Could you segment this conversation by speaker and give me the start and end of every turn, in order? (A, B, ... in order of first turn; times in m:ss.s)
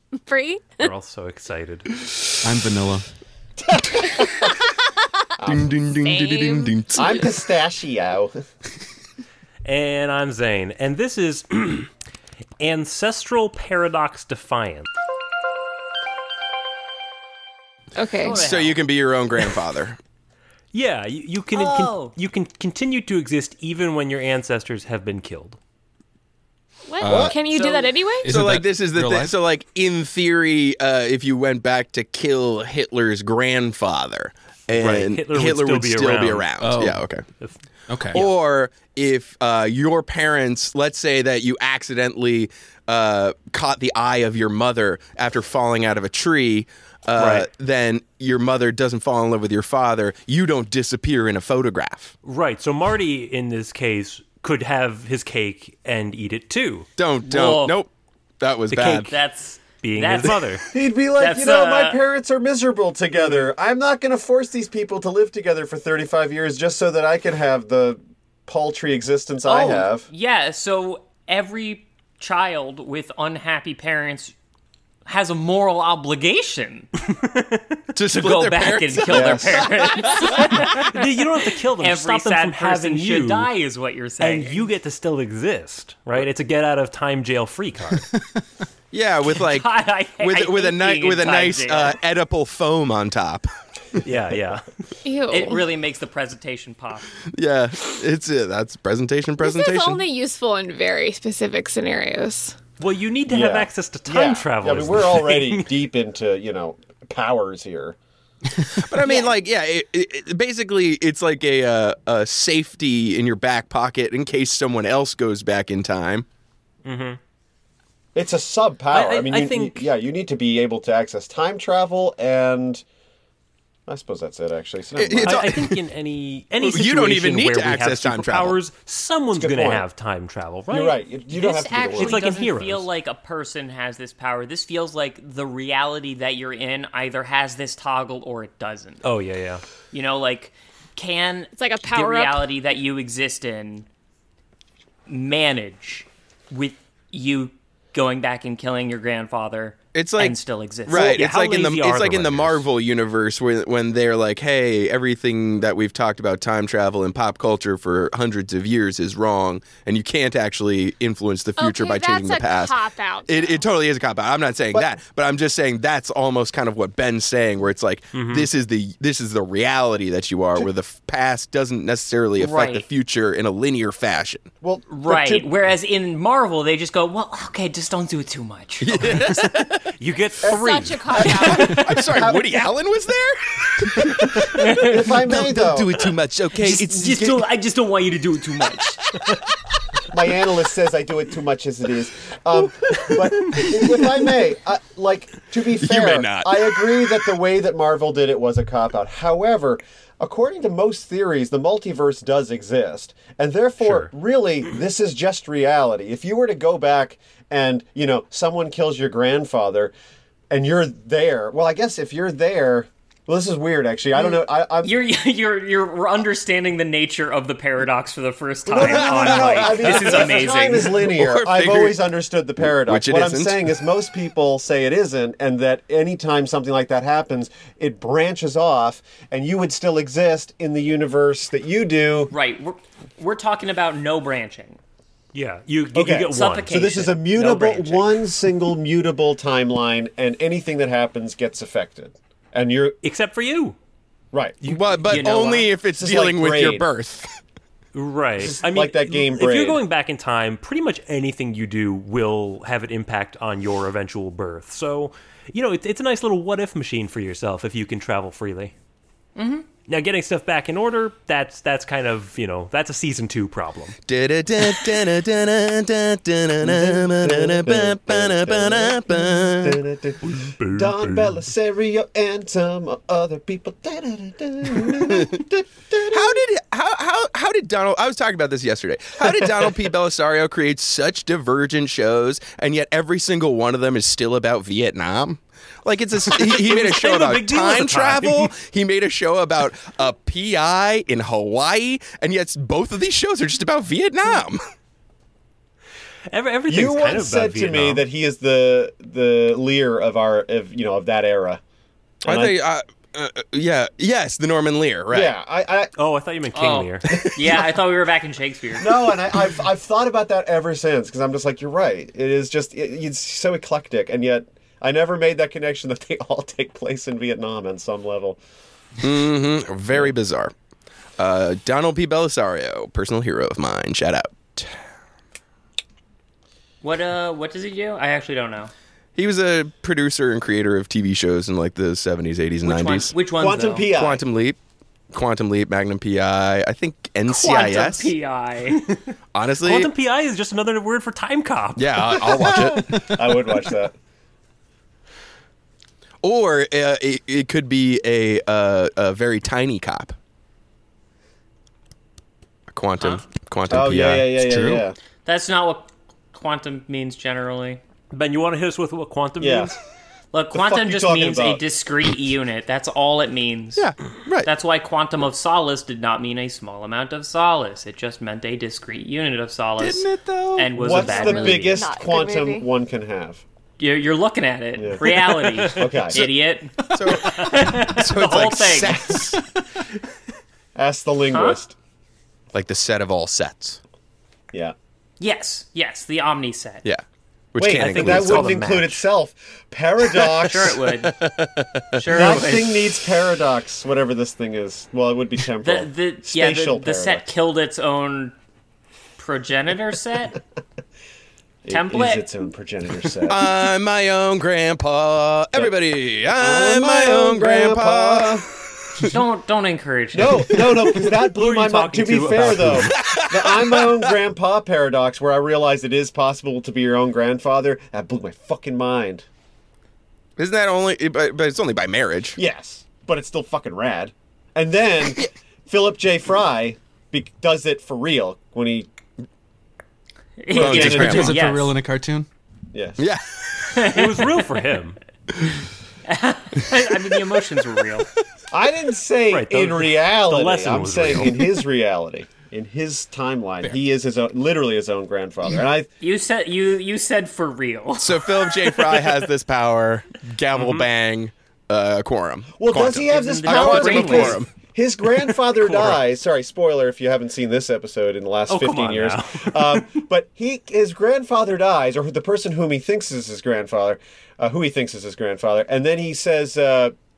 0:00.2-0:00.9 A
0:00.8-0:01.9 B
0:02.4-0:03.0 C
0:03.6-0:04.5 D
0:05.4-0:05.7 D
0:05.5-0:07.1 E
0:05.9-0:07.3 A
0:07.0-0:08.4 D
0:09.6-0:11.9 B
0:12.6-0:14.9 B
0:18.0-0:18.5 A
0:18.2-0:18.8 F
0:18.4-0:20.0 E
0:20.7-0:25.6 B
0:21.5-0:22.1 F
0:26.9-0:28.3 A
0:27.0-0:27.4 C
0:27.0-0:27.4 D
0:27.5-0:27.8 F
0:28.2-0:29.3 C
0:28.2-0:37.2 E
0:34.8-0:36.5 B
0:36.6-0:37.0 C
0:37.9-0:38.3 C
0:38.1-0:52.1 E
0:47.2-0:47.5 B
0:52.2-0:56.9 B
0:57.0-0:57.9 E
0:57.2-0:57.8 F
0:58.4-0:59.1 E
0:58.7-0:59.1 B
0:59.1-1:00.5 F
0:59.8-1:00.6 B
1:00.2-1:10.1 D
1:01.1-1:02.0 F
1:09.4-1:14.3 F
1:15.0-1:16.9 F
1:17.9-1:20.6 E
1:18.1-1:21.0 F
1:19.0-1:20.1 D
1:20.6-1:23.5 B
1:21.8-1:24.7 F
1:24.2-1:28.1 B
1:28.9-1:33.5 E
1:29.4-1:32.0 F
1:34.0-1:34.6 B
1:35.0-1:35.6 A
1:35.3-1:37.1 F
1:37.3-1:40.1 E
1:39.4-1:42.6 A
1:42.8-1:45.7 B
1:43.3-1:48.0 D
1:48.8-1:56.2 E
1:49.0-1:49.3 A
1:56.8-1:57.2 B
1:58.1-2:02.8 D
1:58.9-1:59.9 B
2:03.9-2:05.5 D
2:05.0-2:05.8 E
2:05.2-2:11.0 B
2:06.6-2:08.6 E
2:09.3-2:09.8 D
2:10.7-2:12.2 D
2:11.3-2:19.0 F
2:12.0-2:12.9 B
2:19.0-2:19.6 B
2:19.9-2:23.9 F
2:21.5-2:22.4 A
2:25.1-2:31.2 F
2:29.9-2:54.5 E
2:30.9-2:32.7 B
2:41.6-2:43.6 A
2:48.1-2:48.5 B
2:52.4-2:52.9 F
2:54.6-2:55.6 D
2:54.9-2:59.1 F
2:58.8-2:59.9 E
3:00.0-3:01.2 B
3:00.4-3:02.4 D
3:00.5-3:01.7 A
3:01.2-3:02.1 F
3:01.3-3:04.5 E
3:04.2-3:05.9 D
3:04.4-3:05.2 F
3:05.2-3:07.4 E
3:06.6-3:09.1 F
3:10.1-3:29.9 D
3:15.8-3:17.0 E
3:23.8-3:24.1 B
3:30.5-3:35.0 D
3:34.1-3:41.1 F
3:38.6-3:52.3 D
3:38.7-3:43.8 E
3:52.3-3:54.8 F
3:55.3-3:56.8 B
3:55.9-4:03.0 D
3:56.3-3:58.2 F
4:03.0-4:03.8 B
4:04.3-4:04.6 D
4:04.6-4:05.0 B
4:04.6-4:07.3 E
4:05.0-4:05.7 F
4:05.9-4:06.9 D
4:07.9-4:18.7 B
4:08.4-4:09.8 D
4:19.4-4:19.6 F
4:19.8-4:24.0 B
4:24.1-4:29.8 E
4:26.6-4:36.4 D
4:30.2-4:31.3 B
4:36.1-4:54.6 E
4:46.4-4:48.5 B
4:56.3-4:58.0 B
4:56.7-5:01.6 D
5:02.2-5:02.6 D
5:02.2-5:05.3 E
5:05.1-5:05.9 D
5:06.0-5:07.0 B
5:06.5-5:09.0 F
5:07.1-5:07.6 E
5:08.8-5:18.4 D
5:19.0-5:20.5 E
5:21.2-5:24.8 E
5:26.8-5:28.7 F
5:29.2-5:33.1 E
5:32.6-5:33.9 F
5:33.4-5:34.2 D
5:33.9-5:34.6 E
5:35.1-5:38.1 E
5:37.3-5:38.8 F
5:39.3-5:39.9 E
5:39.6-5:42.6 B
5:41.8-5:43.0 E
5:42.5-5:43.9 D
5:46.2-5:50.1 E
5:52.7-5:54.4 E
5:53.7-5:55.0 D
5:54.4-5:54.8 C
5:55.2-5:57.8 F
5:58.1-5:59.8 B
5:59.4-5:59.7 D
6:00.3-6:03.9 F
6:00.5-6:01.6 D
6:03.8-6:04.5 E
6:04.4-6:11.8 F
6:09.8-6:11.4 E
6:10.8-6:13.4 D
6:11.5-6:12.6 A
6:13.8-6:19.2 F
6:14.8-6:16.3 D
6:16.9-6:19.4 E
6:20.7-6:21.7 D
6:21.3-6:21.6 F
6:22.5-6:23.8 E
6:25.2-6:26.8 F
6:27.5-6:28.5 E
6:27.6-6:30.7 D
6:27.8-6:29.0 F
6:30.5-6:31.1 F
6:30.9-6:32.6 E
6:31.9-6:32.8 F
6:32.1-6:37.2 D
6:35.6-6:38.3 F
6:39.2-6:40.4 F
6:41.6-6:43.4 D
6:41.7-6:42.3 F
6:43.3-6:49.1 E
6:46.3-6:48.4 D
6:49.0-6:50.6 F
6:50.1-6:59.2 D
6:50.9-6:52.9 B
6:52.7-6:54.1 E
7:00.4-7:02.4 E
7:02.4-7:08.9 D
7:10.4-7:11.7 F
7:10.5-7:11.3 D
7:10.5-7:11.4 E
7:10.6-7:12.3 C
7:12.7-7:13.0 D
7:13.0-7:13.9 E
7:13.7-7:14.4 F
7:13.9-7:15.0 B
7:16.0-7:18.1 F
7:18.5-7:25.9 D
7:19.3-7:21.4 B
7:26.0-7:29.2 F
7:28.0-7:34.5 E
7:30.5-7:30.9 B
7:32.6-7:46.9 D
7:33.1-7:34.4 F
7:38.5-7:39.8 B